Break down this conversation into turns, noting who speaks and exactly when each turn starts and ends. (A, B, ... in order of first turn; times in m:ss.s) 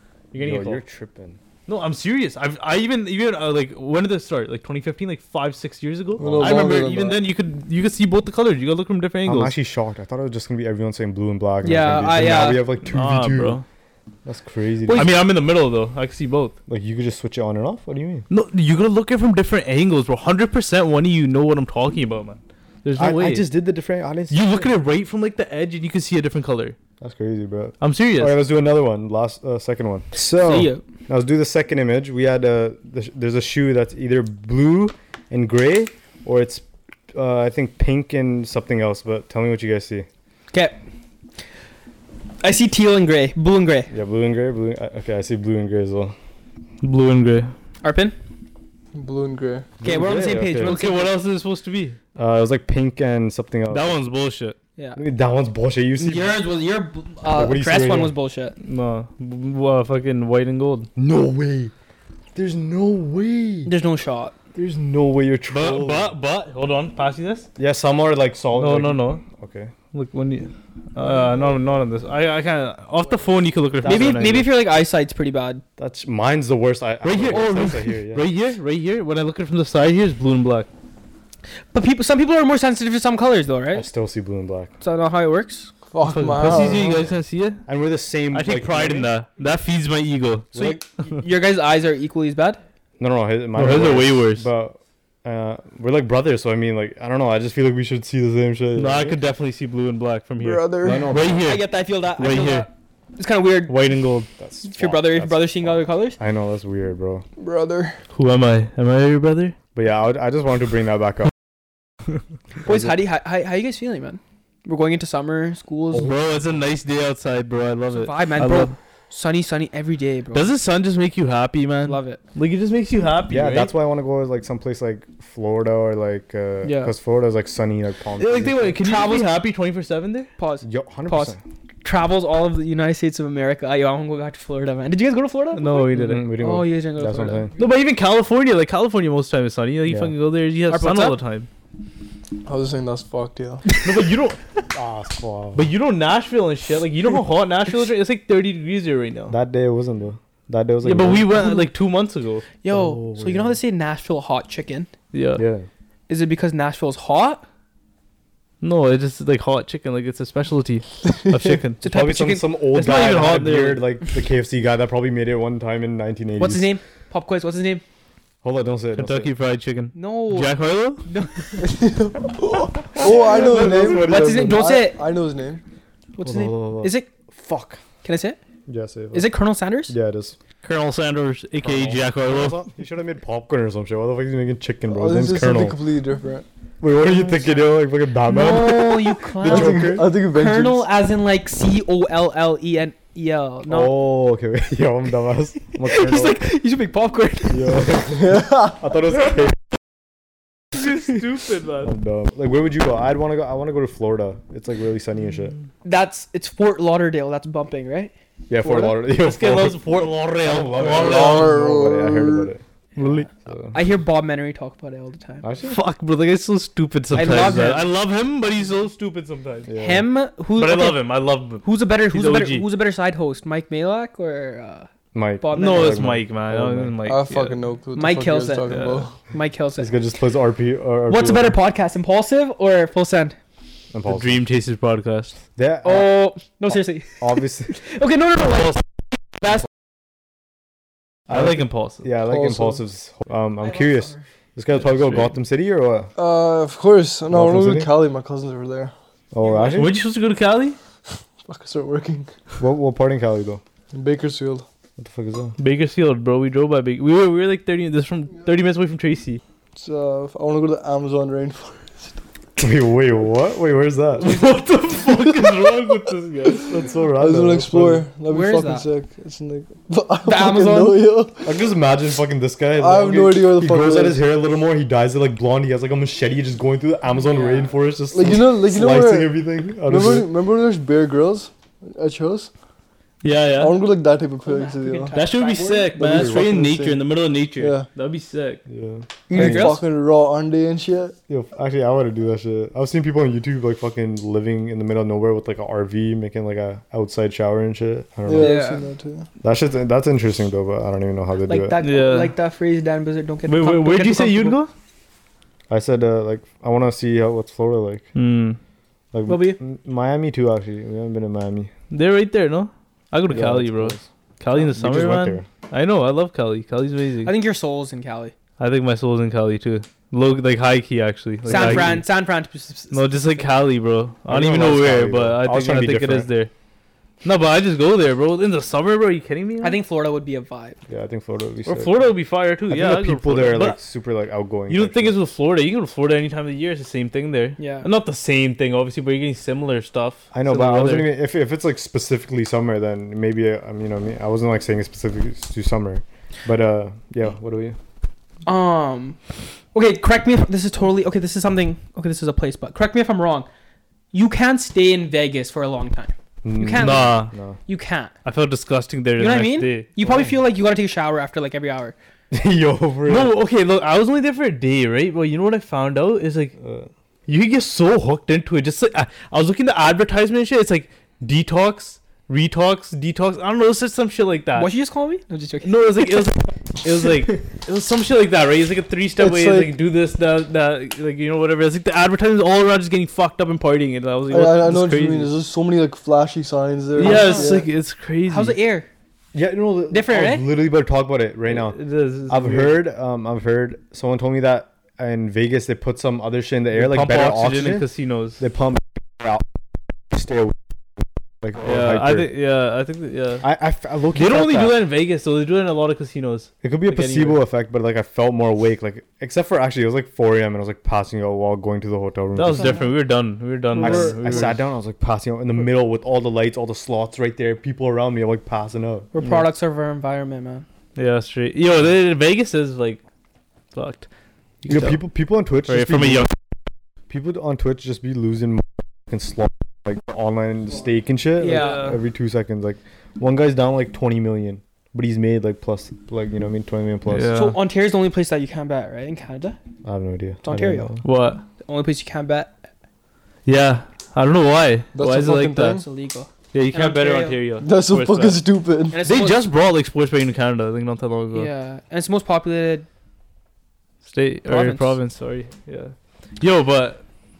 0:00.3-0:00.8 A
0:00.4-0:01.4 B
0:01.7-0:09.5 A
0:06.2-0:07.2 C
0:06.2-0:06.6 B
0:09.2-0:13.6 B
0:11.6-0:12.6 D
0:12.8-0:13.6 A
0:14.2-0:15.1 B
0:14.9-0:16.5 A
0:16.7-0:18.2 B
0:18.3-0:23.4 A
0:23.0-0:24.7 B
0:24.3-0:26.8 A
0:27.0-0:40.1 B
0:27.8-0:28.4 A
0:30.4-0:30.8 D
0:40.5-0:40.8 D
0:42.4-0:43.9 D
0:43.9-0:46.2 B
0:46.8-0:47.5 A
0:47.8-0:48.2 D
0:48.9-0:49.7 C
0:49.8-0:50.8 B
0:49.8-0:51.1 D
0:50.6-0:52.0 A
0:52.2-0:54.1 B
0:53.7-0:54.6 A
0:54.9-0:56.4 B
0:56.0-0:58.5 D
0:57.3-0:58.1 B
0:58.6-1:00.9 A
1:01.0-1:01.7 B
1:02.3-1:03.7 B
1:03.6-1:04.3 D
1:04.5-1:06.1 B
1:05.5-1:07.5 A
1:07.6-1:09.7 B
1:08.5-1:09.2 A
1:09.9-1:14.5 A
1:13.8-1:14.4 B
1:13.8-1:15.6 D
1:15.8-1:18.2 B
1:17.0-1:20.7 A
1:17.3-1:17.8 D
1:21.7-1:23.8 D
1:23.7-1:24.7 B
1:24.8-1:25.7 D
1:25.9-1:27.0 C
1:26.0-1:27.6 A
1:26.4-1:26.9 B
1:27.6-1:29.1 B
1:28.3-1:30.5 A
1:30.5-1:32.6 D
1:33.0-1:39.2 B
1:33.6-1:34.5 A
1:38.8-1:42.7 A
1:40.4-1:41.1 C
1:40.8-1:41.5 B
1:41.4-1:43.8 D
1:43.7-1:44.3 A
1:44.4-1:47.2 B
1:44.6-1:46.2 D
1:47.4-1:48.0 C
1:48.1-1:49.5 A
1:49.7-1:51.3 B
1:52.6-1:56.1 D
1:52.6-1:53.0 B
1:55.9-1:58.7 A
1:57.9-2:00.5 D
2:00.3-2:03.7 A
2:01.8-2:02.2 D
2:03.3-2:08.8 B
2:06.6-2:06.9 D
2:08.2-2:10.3 A
2:08.8-2:09.3 D
2:10.4-2:17.5 D
2:10.6-2:11.4 B
2:15.5-2:16.2 A
2:15.9-2:17.5 B
2:17.6-2:21.5 A
2:19.8-2:20.1 B
2:20.7-2:21.2 D
2:22.4-2:23.7 C
2:23.8-2:24.4 A
2:24.7-2:25.7 B
2:25.5-2:29.4 A
2:29.3-2:31.4 B
2:30.8-2:32.4 A
2:31.3-2:31.6 D
2:32.6-2:34.9 D
2:32.7-2:33.6 B
2:35.1-2:35.4 A
2:35.4-2:35.7 B
2:36.1-2:37.4 D
2:38.6-2:41.8 A
2:41.8-2:42.5 D
2:41.8-2:46.7 B
2:42.7-2:43.8 A
2:46.4-2:47.8 D
2:48.4-2:49.3 B
2:49.0-2:51.0 A
2:49.9-2:51.7 D
2:51.6-2:52.3 C
2:52.9-2:54.6 B
2:52.9-2:55.6 C
2:53.6-2:55.0 D
2:56.2-2:57.1 D
2:56.2-2:57.8 B
2:58.0-2:58.4 D
2:58.7-2:59.3 B
2:59.1-2:59.9 D
2:59.9-3:00.4 B
3:00.6-3:02.6 A
3:01.6-3:05.8 B
3:04.9-3:06.4 C
3:06.8-3:10.1 B
3:08.2-3:13.9 D
3:09.4-3:10.9 C
3:13.7-3:16.4 B
3:15.8-3:18.0 D
3:17.5-3:19.6 B
3:18.1-3:18.8 C
3:20.7-3:21.9 A
3:21.8-3:25.5 B
3:25.8-3:28.1 D
3:28.5-3:29.8 B
3:28.8-3:31.5 A
3:30.4-3:33.8 B
3:30.9-3:32.5 C
3:33.0-3:33.2 A
3:33.0-3:35.4 D
3:35.4-3:35.8 B
3:35.6-3:39.7 A
3:37.1-3:37.8 D
3:39.7-3:40.0 B
3:39.7-3:41.1 D
3:40.6-3:42.7 A
3:41.6-3:44.9 D
3:45.1-3:47.0 B
3:45.4-3:46.0 D
3:45.5-3:47.6 A
3:47.0-3:49.1 C
3:47.9-3:48.7 D
3:48.7-3:49.0 A
3:49.2-3:49.9 D
3:49.8-3:51.6 B
3:51.1-3:53.4 D
3:53.9-3:54.4 B
3:54.0-3:55.4 A
3:55.6-3:57.8 B
3:55.8-3:58.8 D
3:59.4-3:59.6 D
4:01.3-4:02.0 A
4:01.3-4:06.1 B
4:02.2-4:02.8 C
4:03.8-4:04.2 D
4:04.8-4:05.3 A
4:06.2-4:08.9 C
4:07.3-4:07.9 B
4:09.3-4:10.0 B
4:09.7-4:10.8 A
4:11.4-4:12.3 C
4:12.6-4:13.6 B
4:13.9-4:14.6 C
4:15.0-4:15.6 B
4:15.6-4:19.4 A
4:19.8-4:22.2 C
4:22.6-4:24.4 B
4:24.2-4:26.7 A
4:25.0-4:25.7 C
4:26.6-4:28.0 B
4:27.2-4:31.5 C
4:28.3-4:28.9 D
4:30.2-4:31.0 D
4:31.4-4:40.3 B
4:32.8-4:34.2 C
4:37.1-4:37.7 D
4:38.1-4:42.5 C
4:43.2-4:43.8 A
4:43.6-4:45.2 C
4:44.4-4:45.9 D
4:45.1-4:48.6 A
4:45.9-4:47.9 C
4:46.0-4:46.5 B
4:48.7-4:49.8 B
4:49.3-4:49.8 D
4:49.3-4:51.2 C
4:51.3-4:58.6 B
4:58.2-4:59.3 C
4:58.4-4:58.8 D
4:59.4-5:01.8 B
5:01.5-5:04.6 D
5:01.8-5:02.3 A
5:03.5-5:04.7 A
5:05.7-5:08.0 B
5:08.1-5:08.6 A
5:09.1-5:11.7 B
5:09.2-5:09.6 D
5:11.9-5:17.3 A
5:13.3-5:14.0 B
5:14.6-5:15.5 B
5:17.2-5:18.3 D
5:18.6-5:22.0 A
5:21.4-5:22.0 B
5:21.5-5:23.2 D
5:22.9-5:26.5 A
5:24.3-5:26.3 B
5:27.2-5:29.8 A
5:29.6-5:30.8 D
5:30.9-5:32.1 B
5:31.6-5:33.8 A
5:32.7-5:35.2 B
5:34.7-5:41.1 A
5:37.6-5:37.9 D
5:40.3-5:47.8 B
5:48.4-5:49.2 D
5:49.7-5:53.5 D
5:54.1-5:58.1 D
5:56.4-5:57.6 B
5:56.8-5:57.3 A
5:58.2-5:59.9 A
5:59.2-6:01.9 D
6:00.0-6:00.3 B
6:02.3-6:03.3 B
6:03.0-6:06.5 A
6:06.6-6:06.9 B
6:07.3-6:14.7 A
6:14.6-6:16.2 D
6:15.6-6:25.3 A
6:19.2-6:19.7 C
6:24.3-6:27.7 C
6:27.0-6:28.6 A
6:27.0-6:27.7 D
6:28.3-6:28.9 D
6:29.3-6:37.9 B
6:29.9-6:30.4 D
6:31.5-6:32.8 A
6:36.7-6:38.4 A
6:38.4-6:39.5 B
6:40.1-6:42.3 B
6:41.6-6:43.5 A
6:43.4-6:44.8 B
6:44.1-6:47.4 A
6:46.6-6:52.9 B
6:52.4-6:54.6 A
6:52.5-6:52.9 D
6:53.7-6:54.5 D
6:53.8-6:59.4 B
6:59.1-7:00.6 D
7:01.0-7:03.0 A
7:03.7-7:04.1 A
7:04.6-7:05.0 A
7:04.7-7:06.3 B
7:05.7-7:06.3 A
7:07.1-7:17.5 B
7:11.4-7:12.0 D
7:11.5-7:12.0 A
7:17.1-7:17.6 A
7:17.3-7:19.6 D
7:19.8-7:21.0 B
7:20.4-7:20.9 D
7:21.0-7:21.4 A
7:21.6-7:22.6 D
7:23.4-7:25.8 A
7:24.9-7:25.8 C
7:25.8-7:27.4 D
7:26.5-7:28.4 A
7:27.6-7:29.0 C
7:28.9-7:29.4 D
7:29.0-7:31.5 A
7:31.3-7:32.8 D
7:34.0-7:37.0 A
7:34.4-7:35.0 D